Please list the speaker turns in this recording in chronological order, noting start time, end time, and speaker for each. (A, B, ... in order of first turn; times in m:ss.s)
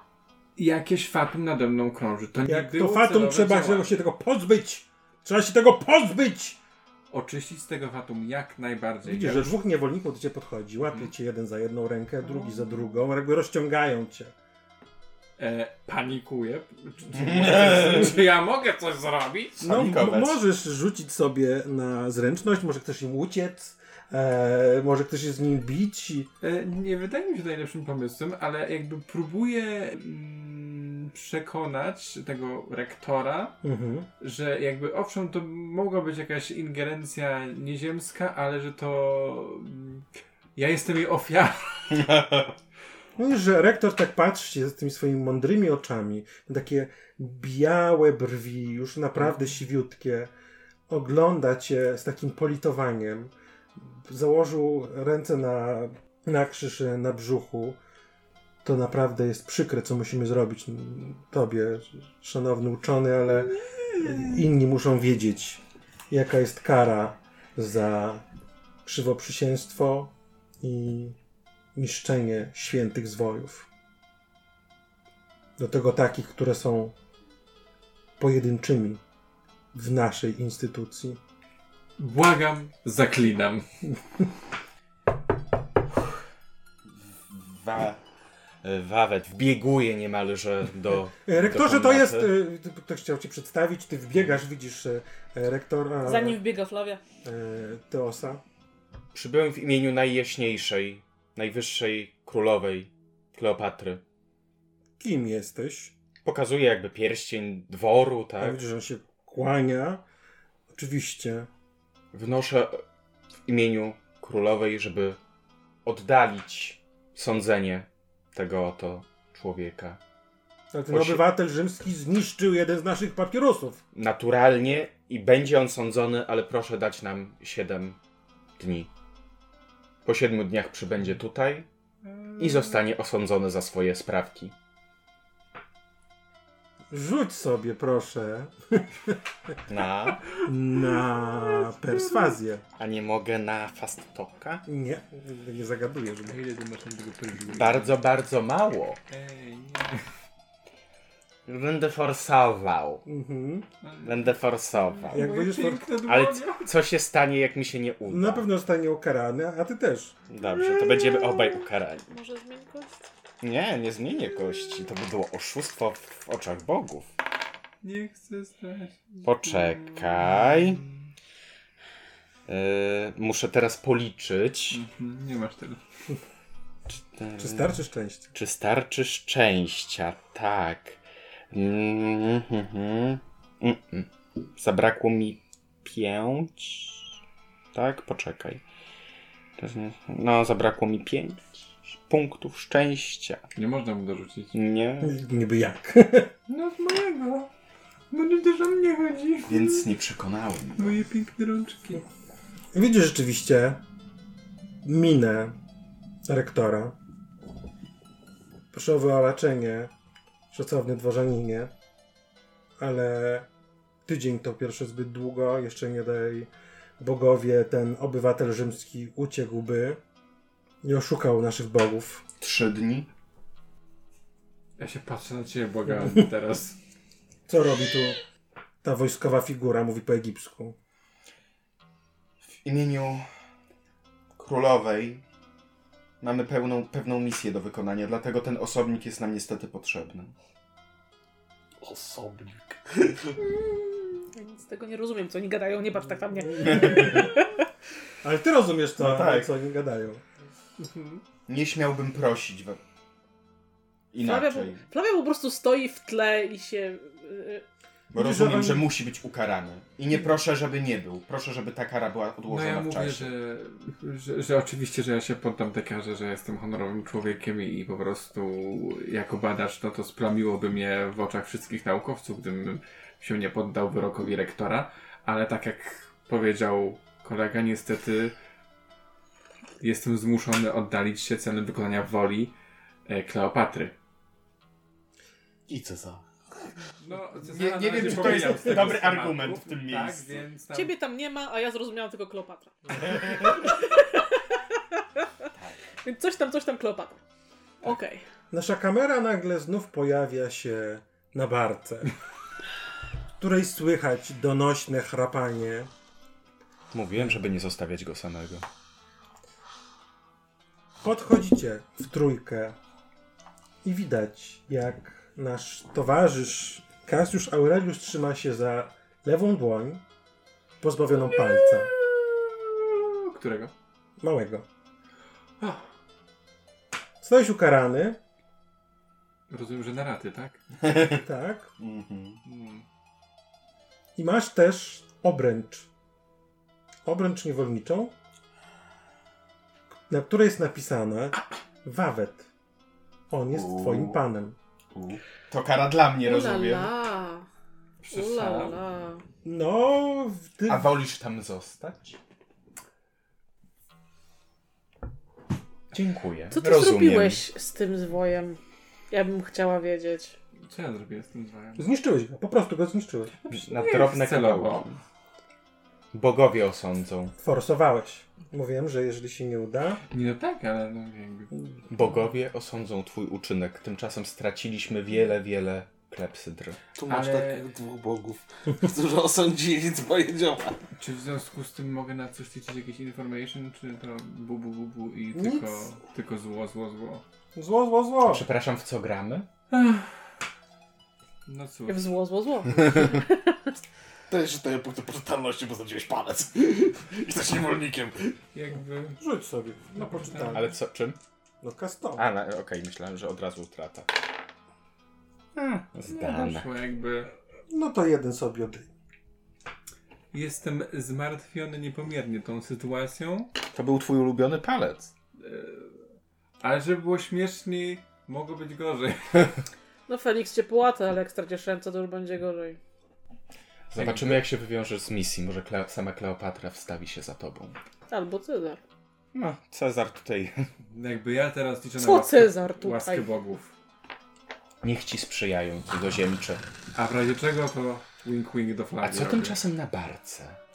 0:00.6-0:03.9 A
0:02.4-0:06.6 B
0:07.1-0:09.5 A
0:09.1-0:14.3 B
0:12.3-0:12.8 A
0:15.4-0:19.6 A
0:17.1-0:18.2 C
0:19.6-0:20.4 C
0:19.6-0:26.3 B
0:26.4-0:33.6 A
0:33.6-0:34.1 B
0:34.2-0:42.1 A
0:41.9-0:42.5 C
0:43.2-0:50.3 B
0:49.2-0:49.5 A
0:50.9-0:57.8 B
0:58.6-1:08.2 B
1:03.4-1:04.4 A
1:08.8-1:11.2 B
1:11.8-1:13.7 B
1:15.6-1:17.0 B
1:18.2-1:19.0 B
1:19.7-1:21.2 B
1:22.0-1:23.7 A
1:26.9-1:28.0 C
1:28.6-1:32.3 C
1:31.2-1:36.4 B
1:36.0-1:37.0 D
1:37.2-1:38.4 B
1:39.1-1:44.0 C
1:45.0-1:45.9 B
1:46.2-1:48.6 C
1:48.4-1:50.0 B
1:50.7-1:51.5 B
1:52.1-1:52.8 C
1:53.5-1:55.2 C
1:55.8-2:00.0 C
2:00.7-2:03.8 B
2:00.9-2:01.2 C
2:04.0-2:08.0 C
2:08.6-2:08.9 C
2:10.0-2:11.7 C
2:12.1-2:12.8 A
2:12.4-2:14.5 C
2:16.9-2:19.5 B
2:19.7-2:20.3 C
2:20.4-2:22.6 B
2:21.4-2:22.4 A
2:22.8-2:24.6 C
2:24.7-2:26.4 B
2:26.3-2:28.0 A
2:27.5-2:29.0 C
2:29.1-2:30.1 A
2:31.5-2:33.0 C
2:33.0-2:33.7 B
2:33.8-2:34.4 A
2:34.0-2:35.3 C
2:35.0-2:36.7 A
2:35.1-2:35.9 B
2:36.0-2:38.4 C
2:38.1-2:40.2 B
2:40.3-2:42.2 C
2:40.7-2:41.5 A
2:42.1-2:43.0 D
2:43.4-2:47.1 C
2:47.8-2:51.1 A
2:49.2-2:50.8 C
2:52.5-2:54.8 C
2:54.7-2:55.8 A
2:56.9-2:57.7 C
2:57.4-2:58.3 B
2:58.3-3:01.0 C
3:01.5-3:07.2 C
3:07.7-3:08.6 C
3:09.6-3:13.4 C
3:13.6-3:14.6 A
3:14.5-3:15.1 C
3:15.0-3:16.3 B
3:16.5-3:17.5 A
3:18.1-3:19.9 A
3:19.4-3:21.0 C
3:20.8-3:22.0 A
3:22.7-3:23.8 B
3:24.8-3:25.6 B
3:26.2-3:27.0 B
3:28.7-3:29.9 B
3:30.5-3:31.7 B
3:32.8-3:33.5 B
3:34.1-3:40.0 B
3:40.8-3:42.2 B
3:42.4-3:43.1 C
3:44.8-3:46.8 A
3:47.5-3:48.2 B
3:48.8-3:50.8 B
3:52.4-3:53.3 C
3:54.4-3:55.2 C
3:56.2-4:00.3 C
4:01.8-4:03.4 E
4:03.6-4:07.6 D
4:06.6-4:07.3 B
4:06.6-4:07.2 C
4:08.2-4:10.2 B
4:09.0-4:09.5 C
4:10.8-4:11.2 A
4:11.5-4:12.8 C
4:14.1-4:14.8 C
4:14.2-4:17.6 D
4:18.1-4:23.3 C
4:18.1-4:18.9 B
4:22.5-4:38.4 A
4:39.8-4:42.5 A
4:43.1-4:44.0 A
4:45.7-4:46.2 E
4:47.0-4:50.9 A
4:47.5-4:50.4 C
4:50.7-4:55.2 D
4:56.0-4:57.2 D
4:57.8-4:58.2 D
4:58.5-5:02.1 B
5:03.4-5:05.9 B
5:06.9-5:08.7 C
5:11.0-5:12.8 B
5:13.8-5:20.0 B
5:20.8-5:21.9 B
5:21.6-5:23.7 A
5:24.2-5:24.7 B
5:25.6-5:25.8 A
5:27.2-5:28.2 B
5:29.5-5:30.6 A
5:30.8-5:31.2 C
5:30.9-5:31.7 B
5:31.8-5:32.4 C
5:32.5-5:32.8 A
5:34.2-5:35.9 B
5:37.0-5:38.2 B
5:40.1-5:42.5 B
5:43.3-5:44.6 B
5:43.5-5:44.2 C
5:44.9-5:46.9 C
5:46.2-5:47.5 D
5:48.0-5:48.8 A
5:48.1-5:49.2 D
5:49.4-5:50.9 B
5:50.7-5:52.2 C
5:55.9-5:57.4 C
5:56.5-5:58.6 D
5:59.1-6:00.4 D
6:00.7-6:01.9 A
6:01.8-6:03.4 B
6:03.5-6:05.0 A
6:03.5-6:05.0 C
6:06.1-6:07.3 C
6:07.4-6:10.0 B
6:10.1-6:11.5 A
6:11.9-6:16.8 C
6:17.0-6:20.8 E
6:17.1-6:17.7 A
6:21.0-6:27.2 A
6:25.3-6:25.9 B
6:27.6-6:28.5 B
6:28.2-6:29.5 C
6:29.7-6:30.1 A
6:31.5-6:32.1 A
6:31.9-6:33.6 D
6:34.3-6:38.4 E
6:38.5-6:39.2 A
6:39.2-6:40.7 B
6:40.0-6:40.6 A
6:40.5-6:41.2 C
6:41.6-6:42.3 B
6:42.2-6:44.1 C
6:45.6-6:46.7 C
6:46.1-6:47.3 A
6:47.7-6:48.9 B
6:50.3-6:53.5 A
6:53.7-6:55.1 C
6:55.4-6:56.0 A
6:56.6-6:59.6 A
7:00.1-7:02.8 D
7:03.9-7:07.8 C
7:04.0-7:04.4 A
7:08.1-7:08.8 D
7:09.3-7:10.7 C
7:10.9-7:13.7 A
7:12.0-7:13.2 D
7:14.8-7:16.6 C
7:16.9-7:19.6 A
7:19.0-7:20.6 C